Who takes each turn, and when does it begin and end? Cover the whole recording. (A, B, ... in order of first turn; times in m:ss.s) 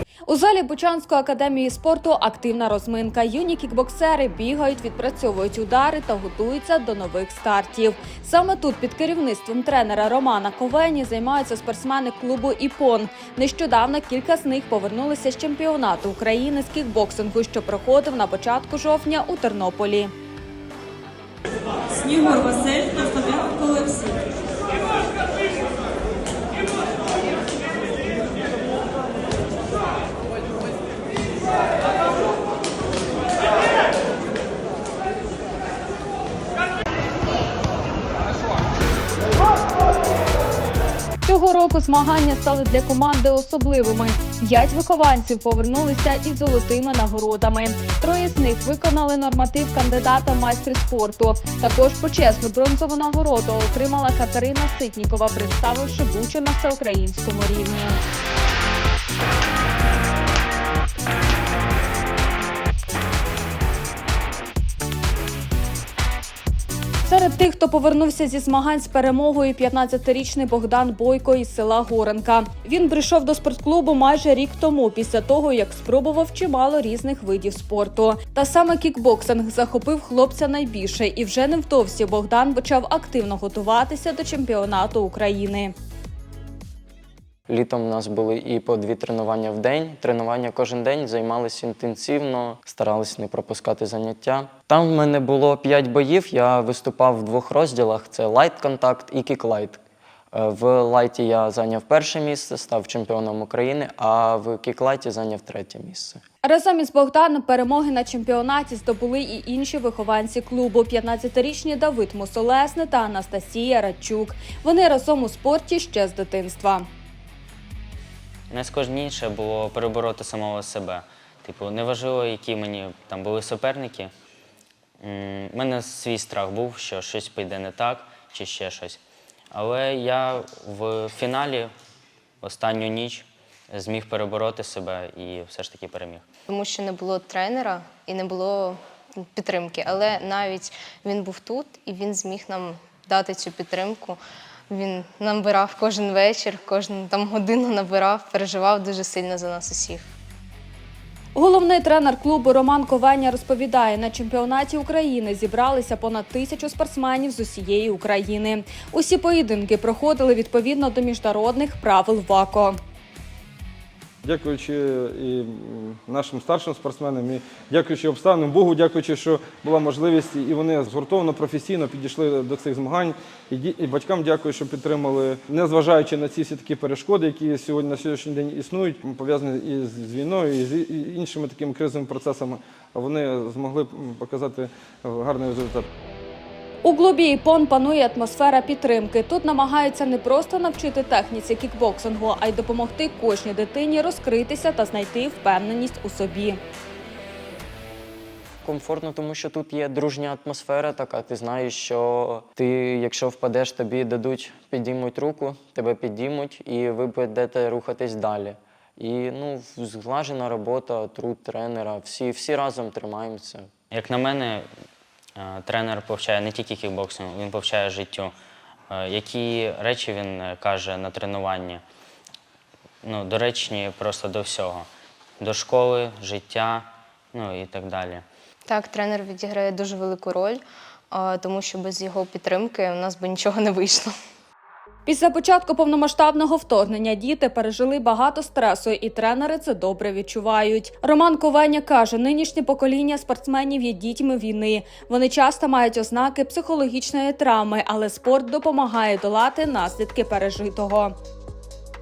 0:00.3-0:20.1 A
0:21.9-0:24.1 A
0:41.2-0:58.0 A
1:07.0-1:25.7 A
1:27.5-1:39.8 B
1:40.3-1:46.2 B
1:46.4-1:56.9 A
1:58.5-2:04.1 C
2:05.0-2:09.0 C
2:09.5-2:11.7 C
2:12.4-2:16.2 C
2:16.5-2:30.1 D
2:31.3-2:42.8 A
2:44.2-3:05.8 E
3:06.8-3:16.6 A
3:18.6-3:33.7 B
3:33.9-3:34.7 C
3:35.4-3:38.3 C
3:38.9-3:41.8 C
3:43.0-3:44.9 C
3:45.4-3:48.2 C
3:48.6-3:54.1 D
3:55.0-4:11.1 A